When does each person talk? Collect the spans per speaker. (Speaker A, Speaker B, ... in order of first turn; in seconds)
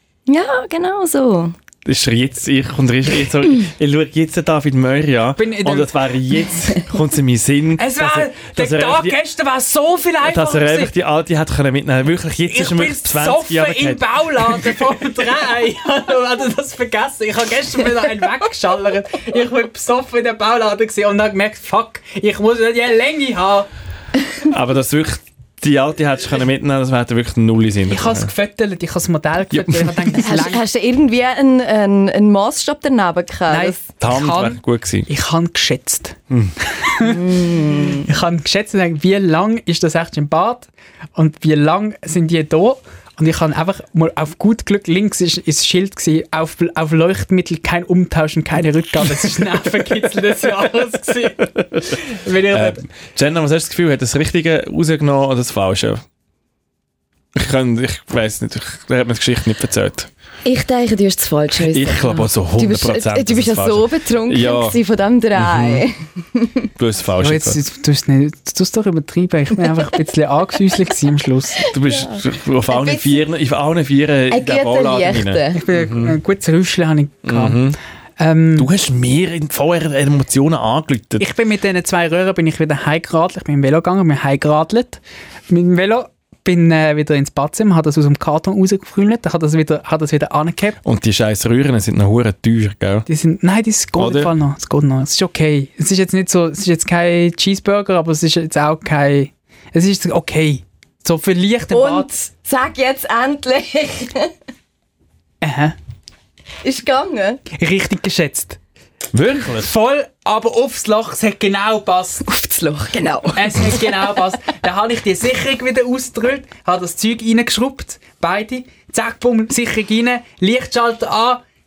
Speaker A: 0.3-1.5, 30.2-33.8, 37.0-38.1, 60.4-66.7, 71.6-73.2, 74.3-75.6, 101.7-104.3, 106.6-107.4, 112.2-113.8
Speaker B: 1.8-9.2, 10.2-14.0, 24.4-28.3, 29.5-30.1, 34.0-35.1, 52.5-56.0, 57.4-60.1, 61.7-64.8, 65.3-65.8, 66.8-67.6, 71.7-76.2, 77.2-77.8, 78.5-81.2, 90.8-93.0, 94.0-94.3, 109.1-109.7
Speaker C: 5.4-6.1, 7.8-10.9, 12.5-23.7, 27.9-30.6, 33.5-36.2, 36.8-37.2, 37.9-52.8, 67.2-71.7, 75.5-77.6, 78.2-78.7, 81.2-90.8, 93.1-102.1, 105.4-105.7, 107.5-108.6, 109.5-112.2, 113.3-121.4